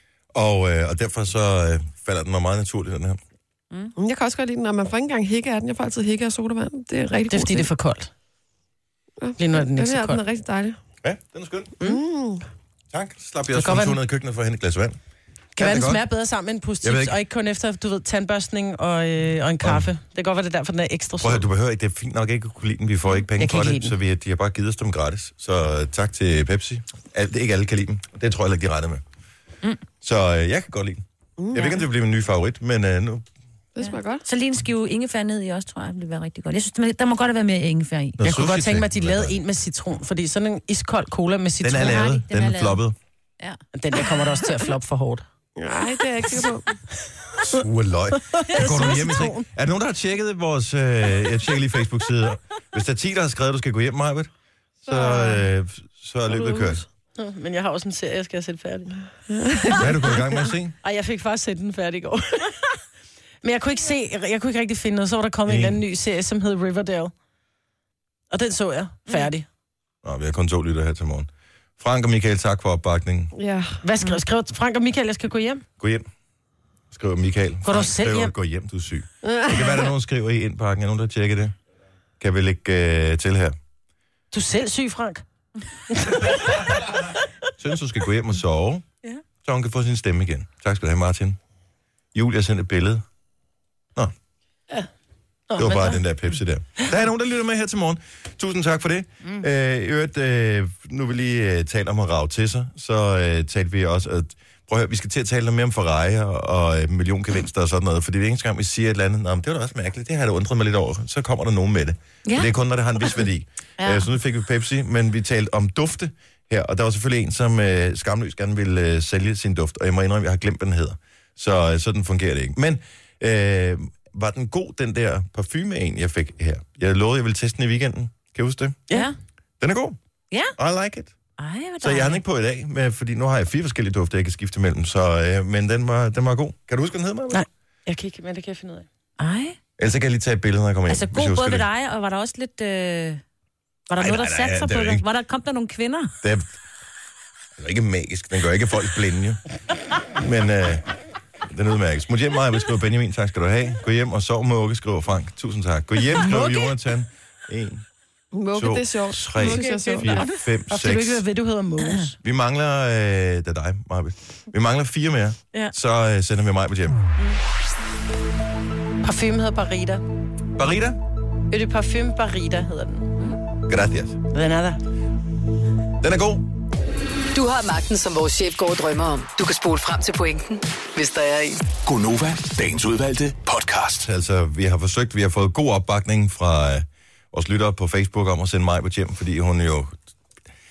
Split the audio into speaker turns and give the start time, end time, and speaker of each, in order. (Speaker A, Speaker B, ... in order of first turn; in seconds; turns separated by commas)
Speaker A: 0.3-3.2, Speaker B: 4.0-7.7, Speaker C: 7.3-8.1, Speaker B: 9.2-10.8, Speaker C: 9.4-10.2, Speaker A: 11.0-11.7, Speaker B: 11.8-12.4, Speaker A: 12.9-15.0, Speaker C: 13.5-14.0, Speaker C: 15.6-21.4, Speaker A: 15.6-16.0, Speaker A: 16.8-17.1, Speaker A: 19.6-19.9, Speaker A: 21.2-29.0, Speaker C: 23.4-23.9, Speaker A: 30.0-33.2, Speaker B: 31.4-31.8, Speaker B: 33.7-34.2, Speaker D: 33.8-38.2, Speaker A: 38.2-39.3, Speaker C: 38.2-42.0, Speaker A: 41.6-42.9, Speaker D: 41.8-42.8, Speaker C: 43.7-45.2, Speaker B: 45.6-46.7, Speaker A: 47.4-54.3, Speaker C: 48.4-49.4, Speaker B: 54.8-55.4, Speaker A: 54.9-56.8, Speaker B: 56.3-56.8, Speaker C: 57.2-58.9, Speaker B: 59.4-59.7, Speaker A: 59.7-60.7, Speaker C: 60.8-62.7, Speaker C: 63.4-67.1, Speaker A: 65.5-65.8, Speaker C: 68.3-69.5, Speaker A: 70.0-73.3, Speaker B: 73.3-73.8, Speaker C: 73.8-75.6, Speaker A: 75.8-76.0, Speaker A: 76.9-81.5, Speaker C: 77.6-78.3, Speaker B: 79.2-79.9, Speaker A: 82.2-83.5, Speaker C: 84.3-85.2, Speaker C: 85.9-86.4, Speaker A: 87.6-88.8, Speaker A: 89.4-91.4, Speaker A: 92.1-93.0, Speaker C: 95.5-96.0, Speaker A: 95.6-128.8, Speaker D: 113.8-114.0, Speaker D: 128.9-129.1, Speaker A: 129.6-130.0, Speaker A: 130.6-131.1, Speaker D: 131.4-132.2, Speaker A: 131.8-137.4, Speaker C: 137.3-138.8, Speaker D: 139.2-139.6, Speaker A: 139.8-141.7, Speaker D: 140.9-143.2, Speaker D: 143.9-146.1, Speaker A: 144.0-145.1, Speaker A: 146.2-146.6, Speaker A: 147.6-149.4, Speaker A: 150.2-150.8, Speaker A: 151.5-157.8, Speaker B: 158.3-160.2, Speaker A: 158.5-161.2, Speaker C: 159.4-162.1, Speaker A: 162.2-167.0, Speaker C: 169.0-170.0, Speaker A: 170.6-171.0, Speaker C: 171.5-173.1, Speaker A: 173.7-174.2, Speaker C: 174.3-174.8, Speaker A: 176.0-176.4, Speaker E: 177.3-181.6, Speaker F: 181.8-184.1, Speaker A: 184.0-189.9